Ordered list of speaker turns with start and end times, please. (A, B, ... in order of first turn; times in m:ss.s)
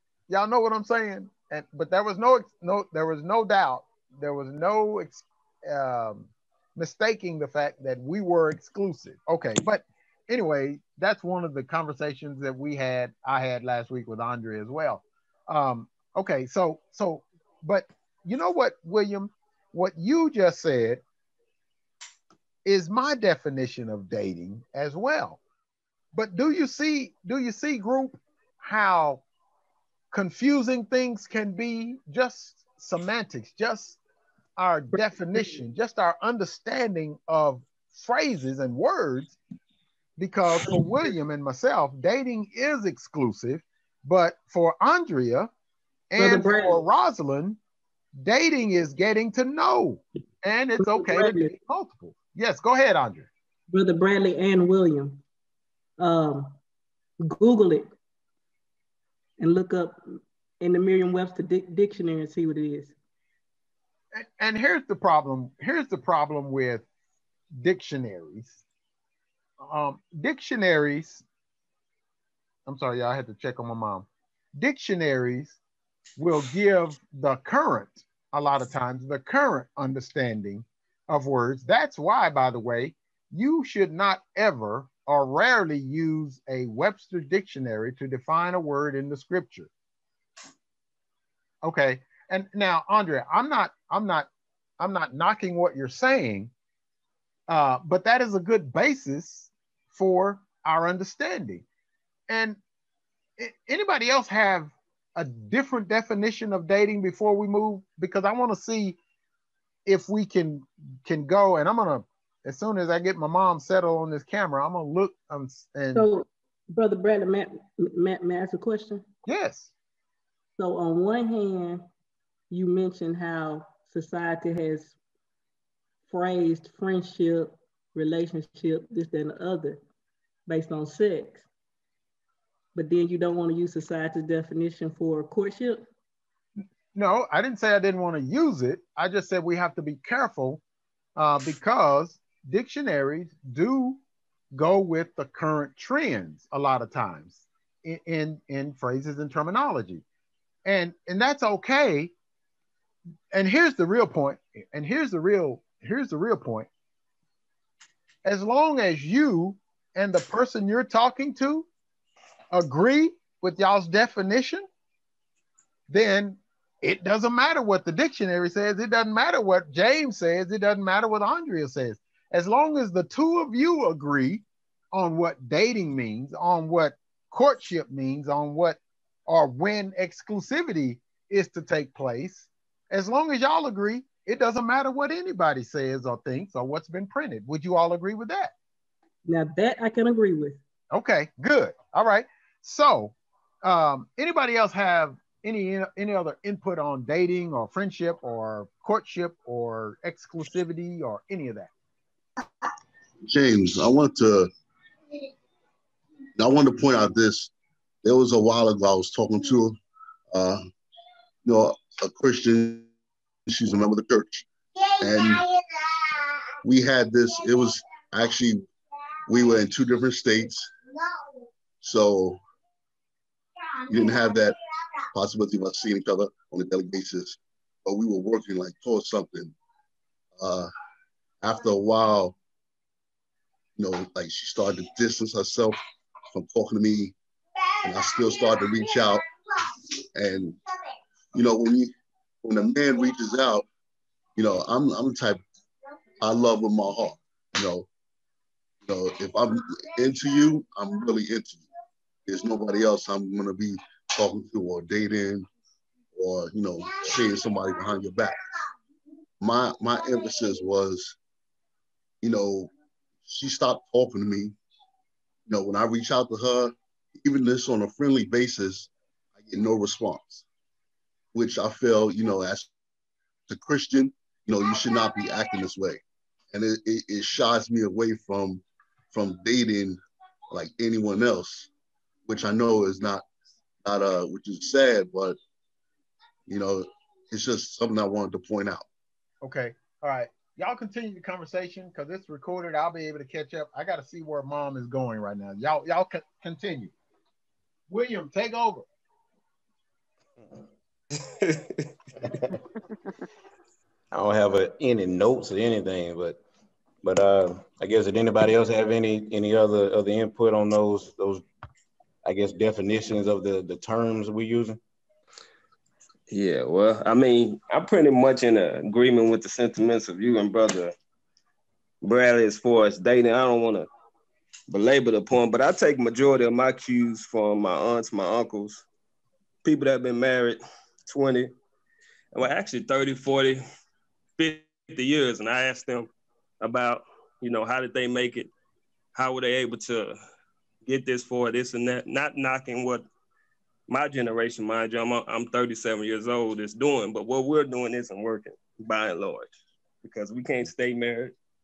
0:00.3-0:21.0 A
0:22.6-0:25.4 A
0:26.1-0:29.2 A
0:30.1-0:34.0 A
0:34.6-0:39.4 A
0:40.2-0:45.5 A
0:46.1-0:47.6 A
0:46.2-0:46.8 B
0:48.2-0:53.3 A
0:50.8-0:51.5 B
0:53.7-0:55.2 B
0:56.0-0:56.6 B
0:57.2-0:57.9 B
0:59.4-1:02.9 B
1:04.1-1:06.8 A
1:07.6-1:08.6 A
1:09.6-1:11.2 A
1:12.6-1:15.6 A
1:16.2-1:29.7 A
1:31.6-1:34.3 A
1:34.8-1:36.5 A
1:37.5-1:41.6 A
1:42.3-1:42.6 A
1:43.4-1:49.0 A
1:49.8-1:56.1 A
1:55.9-1:59.0 B
1:59.2-1:59.7 A
2:00.6-2:01.8 B
2:02.5-2:05.0 B
2:06.1-2:09.8 B
2:10.5-2:11.4 B
2:12.7-2:15.9 B
2:16.9-2:20.6 A
2:21.2-2:24.0 A
2:24.5-2:30.0 A
2:30.6-2:32.1 A
2:33.3-2:36.7 A
2:38.2-2:41.7 A
2:42.5-2:44.6 A
2:45.9-3:08.5 A
3:09.2-3:10.6 B
3:10.9-3:21.7 A
3:23.2-3:24.5 C
3:26.4-3:27.5 C
3:28.0-3:29.8 C
3:30.3-3:30.7 C
3:31.4-3:32.9 C
3:33.5-3:34.4 C
3:35.0-3:35.5 C
3:36.6-3:38.6 C
3:39.3-3:40.7 C
3:41.8-3:42.4 C
3:43.9-3:44.6 C
3:45.1-3:49.5 C
3:50.4-3:50.7 C
3:51.4-3:52.4 C
3:53.8-3:55.8 C
3:56.3-3:57.1 C
3:57.8-3:59.2 C
4:00.1-4:00.6 C
4:01.3-4:01.9 C
4:02.4-4:03.6 C
4:04.4-4:05.4 C
4:06.2-4:07.9 C
4:08.8-4:11.7 C
4:12.3-4:15.5 C
4:16.1-4:18.4 C
4:19.4-4:21.2 C
4:22.2-4:22.7 C
4:23.2-4:24.6 C
4:25.5-4:30.4 C
4:31.3-4:32.7 C
4:33.5-4:36.0 C
4:36.5-4:40.0 C
4:40.5-4:41.7 C
4:42.2-4:43.2 C
4:43.8-4:45.4 C
4:46.5-4:48.8 C
4:49.4-4:56.9 A
4:57.9-4:58.8 A
5:01.4-5:01.9 D
5:04.1-5:06.4 E
5:07.0-5:11.4 E
5:12.2-5:14.8 E
5:16.3-5:20.9 D
5:22.0-5:23.9 D
5:24.7-5:28.8 D
5:29.6-5:31.5 D
5:32.3-5:33.6 D
5:34.4-5:36.1 D
5:36.6-5:38.5 D
5:39.1-5:40.2 D
5:40.8-5:43.0 D
5:43.9-5:49.5 D
5:50.0-5:51.3 D